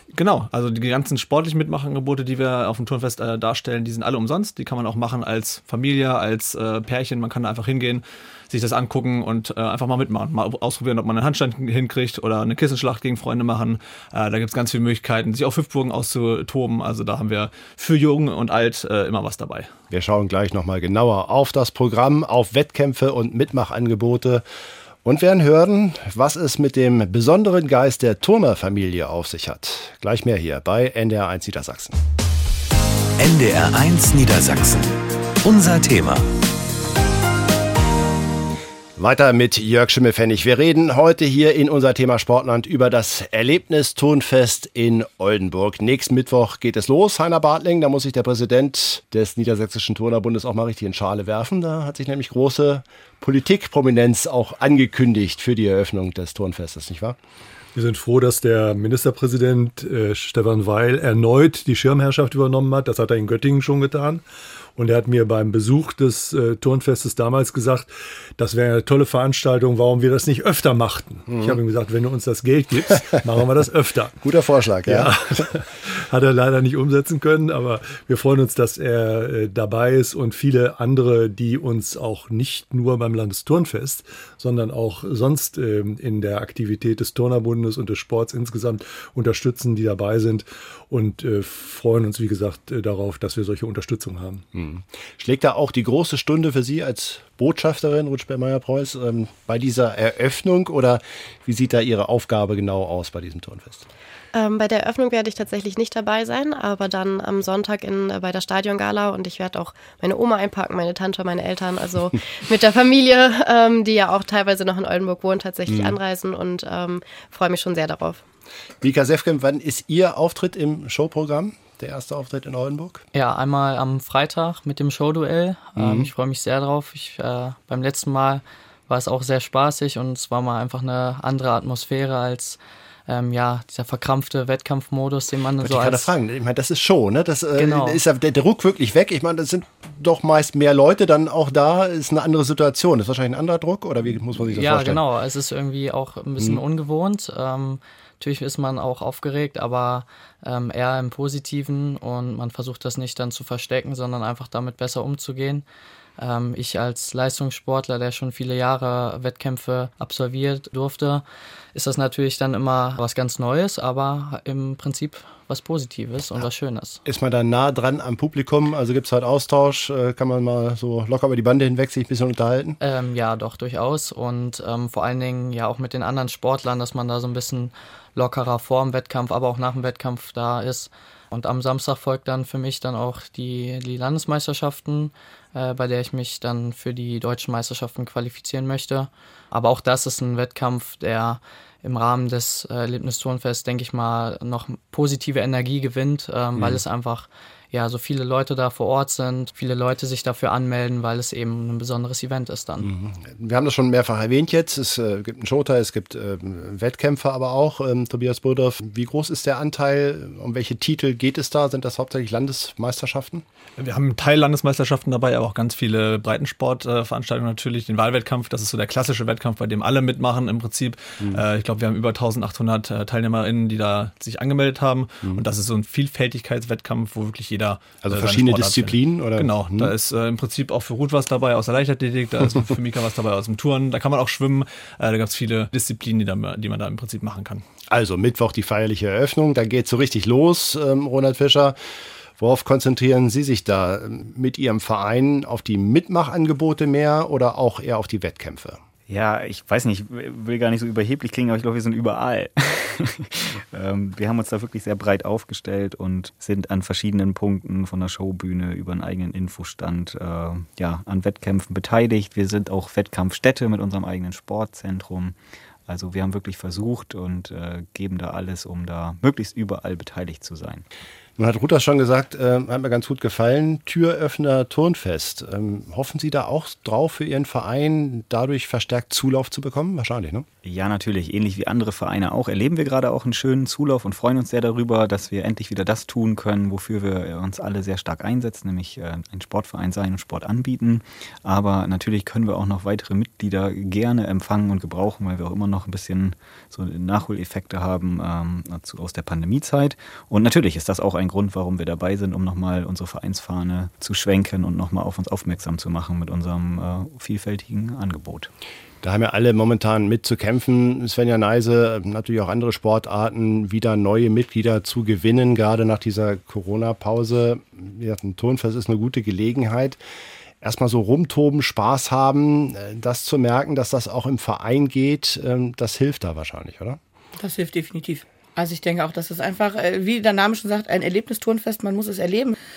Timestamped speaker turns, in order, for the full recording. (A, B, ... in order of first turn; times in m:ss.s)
0:00.1-0:19.7 A
0:19.9-0:24.4 B
0:25.0-0:32.0 B
0:33.2-0:36.3 C
0:39.0-0:57.2 B
0:57.7-1:04.2 D
1:04.8-1:14.2 D
1:11.3-1:11.6 B
1:14.2-1:15.5 B
1:14.8-1:34.4 D
1:34.6-1:43.9 B
1:44.3-1:58.2 E
1:55.7-1:56.0 B
1:58.8-2:03.0 B
2:03.1-2:16.1 F
2:05.8-2:06.1 B
2:15.6-2:25.0 B
2:17.6-2:18.0 F
2:24.5-2:35.6 F
2:36.2-2:47.0 F
2:47.0-2:52.8 B
2:52.8-3:22.9 F
3:22.8-3:33.4 B
3:33.8-3:57.6 A
3:48.0-3:49.9 B
3:57.9-4:01.8 B
4:02.4-4:08.8 B
4:09.1-4:25.4 G
4:25.9-4:30.8 G
4:31.4-4:40.5 B
4:40.6-5:08.5 G
5:09.0-5:20.0 B
5:20.6-5:27.0 B
5:27.4-5:32.6 H